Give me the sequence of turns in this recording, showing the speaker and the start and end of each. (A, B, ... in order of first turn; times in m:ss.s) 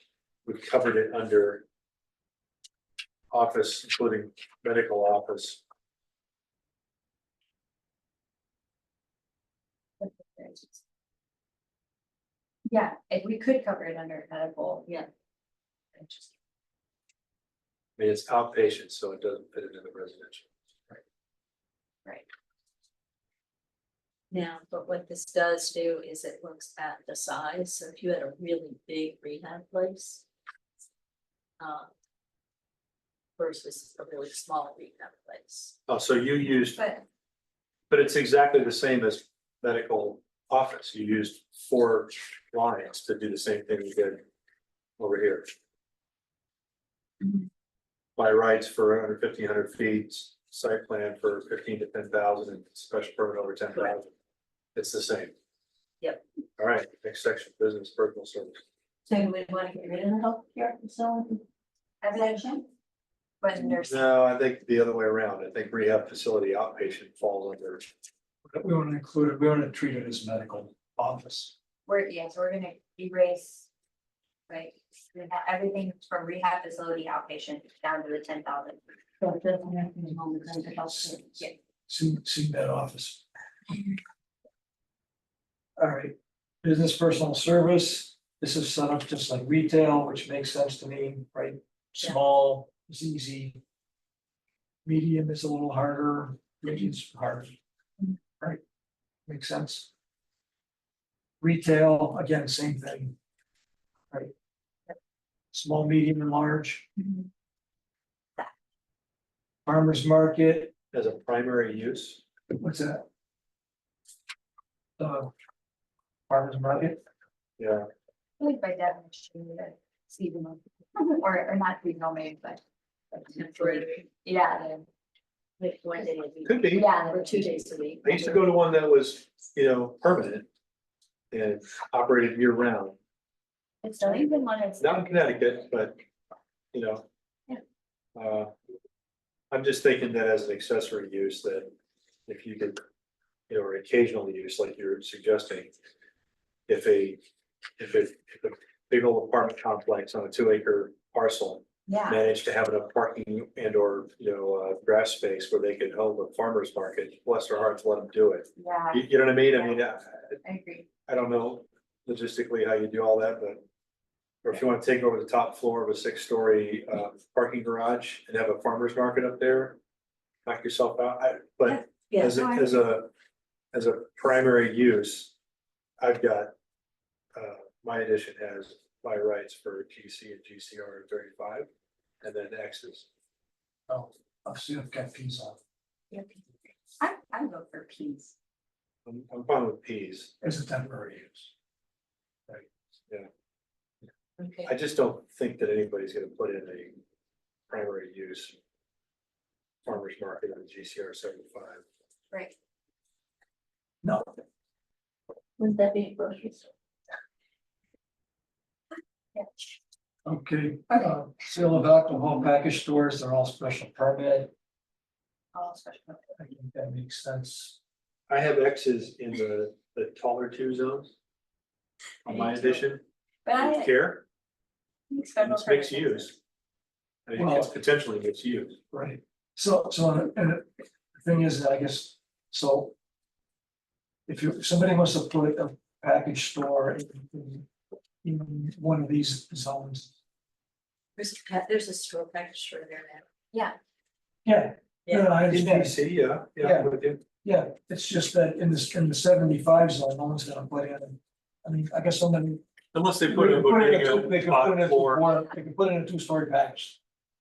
0:00.4-0:01.6 A
0:03.3-0:05.6 A
0:10.0-0:10.8 B
0:12.7-0:15.0 B
0:16.0-0:16.3 B
0:18.0-0:21.0 A
0:24.3-0:30.2 C
0:31.6-0:31.9 C
0:33.4-0:35.8 C
0:35.9-0:36.8 A
0:36.8-0:37.0 B
0:37.9-0:44.2 A
0:45.0-0:45.5 A
0:48.2-0:54.1 A
0:54.7-0:55.3 A
0:56.6-0:58.6 A
0:59.1-1:01.4 C
1:02.0-1:02.6 B
1:02.1-1:02.6 C
1:03.4-1:04.0 B
1:03.8-1:07.9 A
1:08.5-1:11.5 D
1:11.8-1:13.7 B
1:14.5-1:21.5 B
1:19.2-1:21.2 C
1:21.9-1:23.2 D
1:25.8-1:33.6 D
1:34.8-1:37.6 D
1:39.2-1:39.9 D
1:41.4-1:43.2 D
1:45.5-1:46.8 D
1:47.0-1:47.2 B
1:49.6-1:50.7 D
1:50.9-1:52.2 A
1:52.6-1:53.0 D
1:55.0-1:55.3 D
1:56.3-1:57.0 D
1:57.6-1:57.9 A
1:58.4-2:02.6 B
2:03.1-2:04.0 C
2:03.4-2:04.9 B
2:05.6-2:08.3 C
2:06.4-2:06.9 A
2:06.7-2:08.4 B
2:08.0-2:10.5 A
2:11.3-2:13.0 A
2:13.8-2:15.2 B
2:14.0-2:15.2 C
2:14.8-2:16.0 A
2:16.7-2:17.0 A
2:18.2-2:18.5 A
2:19.5-2:21.7 A
2:22.3-2:22.8 A
2:23.5-2:25.7 A
2:26.7-2:27.2 A
2:27.8-2:40.4 A
2:31.9-2:32.2 B
2:38.6-2:39.8 B
2:40.4-2:40.9 B
2:41.1-2:43.6 A
2:44.4-2:49.8 A
2:50.4-2:53.1 A
2:51.7-2:52.5 C
2:53.7-2:55.3 A
2:56.0-2:56.5 A
2:57.4-3:01.7 A
3:02.2-3:03.1 A
3:03.9-3:05.6 D
3:06.1-3:06.4 B
3:07.0-3:08.3 B
3:09.0-3:10.3 A
3:10.4-3:11.5 D
3:14.4-3:14.7 C
3:14.6-3:17.0 A
3:17.7-3:18.6 A
3:19.8-3:21.8 A
3:24.0-3:24.4 D
3:25.6-3:26.7 C
3:30.2-3:34.5 D
3:35.5-3:36.3 B
3:36.4-3:37.8 D
3:38.3-3:41.1 A
3:42.2-3:43.0 A
3:43.4-3:43.9 B
3:43.5-3:44.2 A
3:45.1-3:46.2 B
3:45.4-3:46.3 A
3:47.2-3:48.8 A
3:47.4-3:47.7 D
3:48.9-3:52.9 D
3:54.3-3:57.7 D
3:58.2-4:00.1 D
4:01.2-4:03.2 C
4:04.4-4:06.0 D
4:05.1-4:05.4 C
4:05.5-4:07.2 A
4:06.6-4:06.9 D
4:07.4-4:12.6 D
4:12.9-4:15.3 A
4:13.3-4:17.0 D